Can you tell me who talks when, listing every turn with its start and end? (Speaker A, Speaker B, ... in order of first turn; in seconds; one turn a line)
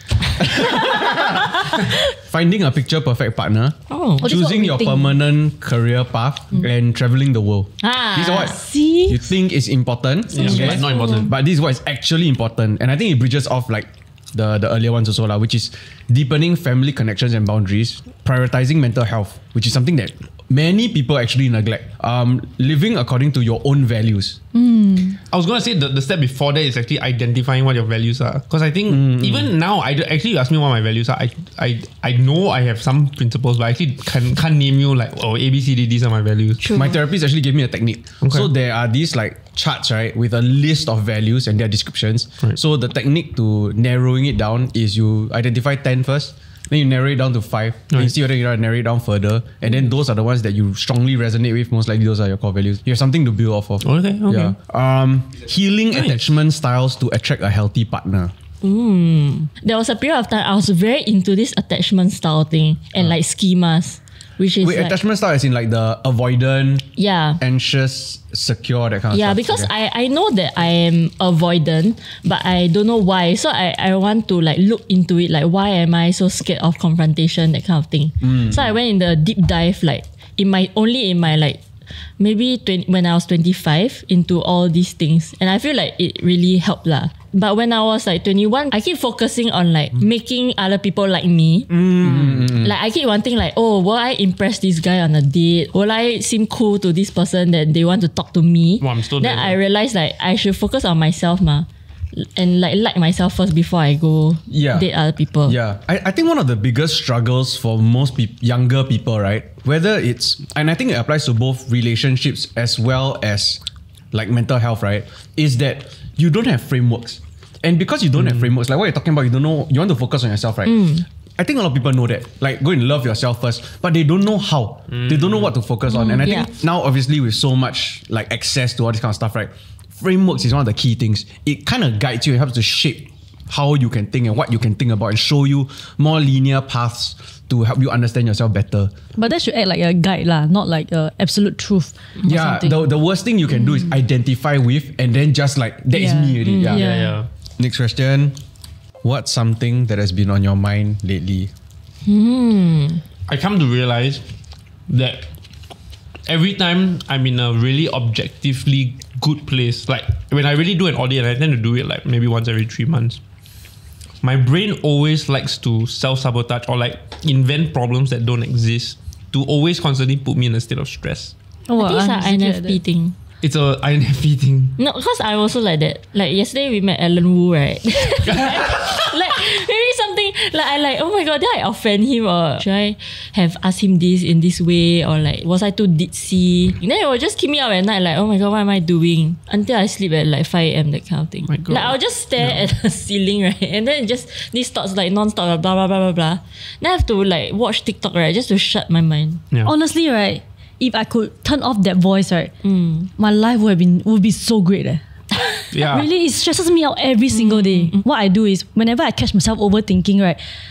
Speaker A: 0.4-24.4
Speaker B: 3.9-4.3
Speaker C: 4.2-5.2
Speaker B: 7.8-8.6
Speaker C: 8.3-9.2
Speaker D: 10.3-11.3
Speaker B: 10.4-11.3
Speaker C: 24.5-25.2
Speaker D: 25.3-36.6
Speaker A: 28.9-29.5
Speaker B: 36.6-37.0
Speaker A: 36.7-58.3
Speaker D: 53.8-54.5
Speaker B: 58.6-65.0
Speaker A: 64.6-66.9
Speaker B: 67.0-67.4
Speaker A: 67.4-69.7
Speaker B: 69.1-81.6
Speaker A: 78.2-78.6
Speaker B: 82.2-105.6
Speaker A: 91.7-92.7
Speaker D: 98.8-99.6
Speaker A: 104.5-104.9
Speaker A: 105.5-113.6
Speaker A: 114.1-138.9
Speaker B: 120.7-121.0
Speaker D: 124.9-125.5
Speaker B: 125.9-126.5
Speaker C: 139.2-142.9
Speaker A: 142.2-146.9
Speaker C: 145.9-147.2
Speaker B: 146.5-146.8
Speaker D: 146.7-147.3
Speaker A: 147.6-148.4
Speaker A: 149.0-151.5
Speaker B: 152.1-153.0
Speaker D: 153.3-154.2
Speaker D: 154.9-155.3
Speaker D: 156.3-163.2
Speaker D: 164.2-171.3
Speaker C: 171.7-172.8
Speaker B: 171.8-173.2
Speaker D: 173.4-174.8
Speaker B: 174.8-199.4
Speaker D: 191.5-192.7
Speaker C: 199.7-202.5
Speaker B: 202.6-203.1
Speaker C: 203.2-205.0
Speaker D: 205.7-206.1
Speaker C: 205.8-210.4
Speaker B: 207.3-208.0